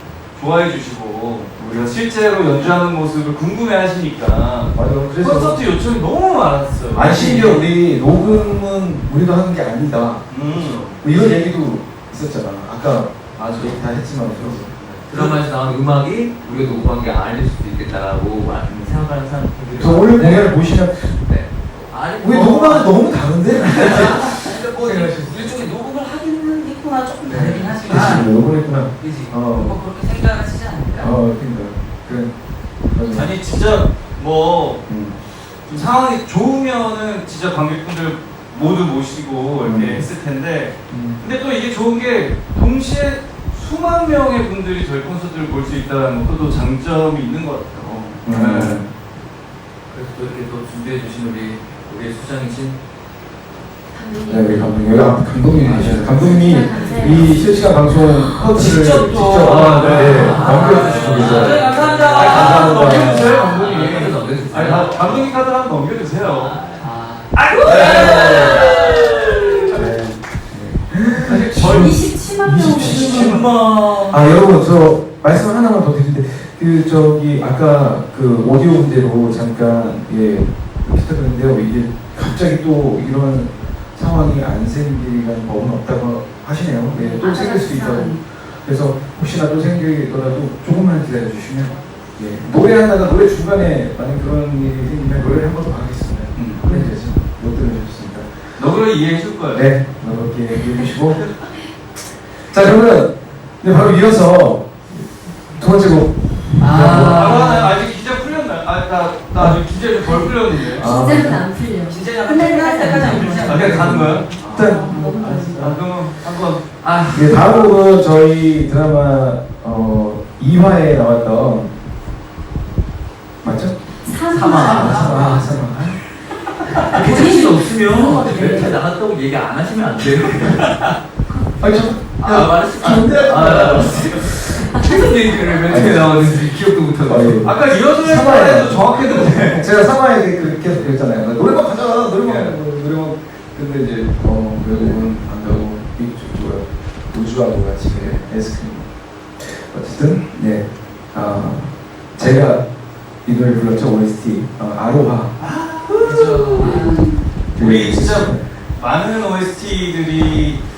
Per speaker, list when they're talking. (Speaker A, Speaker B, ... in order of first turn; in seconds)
Speaker A: 0.3-8.5, 10.3-11.3, 14.3-15.4, 33.1-34.8, 35.6-48.9, 59.4-61.6, 62.1-66.6, 67.3-69.9, 71.2-72.0, 72.8-74.1, 96.3-96.6, 98.6-99.7, 106.8-110.9, 113.3-114.3, 115.5-116.7, 137.4-139.7, 142.2-142.6, 155.4-156.8, 157.5-160.6
Speaker B: 4.7-5.6, 6.9-14.7, 16.5-16.8, 18.7-19.0, 19.8-21.2, 22.1-25.5, 27.2-29.8, 31.0-33.4, 34.9-35.1, 39.6-40.0, 40.9-41.2, 48.2-48.9, 54.3-61.7, 62.2-63.5, 69.7-98.6, 99.5-101.4, 102.5-107.4, 110.7-111.4, 113.1-115.0, 117.1-121.7, 123.4-123.8, 124.6-126.0, 131.6-134.7, 135.6-136.3, 137.0-152.7, 153.2-155.3, 157.5-158.5
Speaker C: 13.4-13.8, 15.0-20.5, 21.2-23.0, 49.9-52.8, 55.5-56.5, 59.8-62.6, 63.5-65.4, 66.4-66.9, 73.5-73.9, 114.4-114.7, 115.3-115.7, 116.8-117.4, 124.3-125.2, 126.9-130.9, 132.2-137.4
Speaker D: 23.8-28.4, 29.0-31.1, 58.6-63.3, 66.8-68.7, 106.6-107.7, 111.9-114.0, 124.6-125.4, 126.9-128.1, 156.0-157.2
Speaker E: 53.9-54.8, 56.2-58.4, 67.5-69.0, 71.7-73.4, 87.1-88.2, 110.7-113.6, 114.6-115.8, 124.0-125.5, 126.8-128.7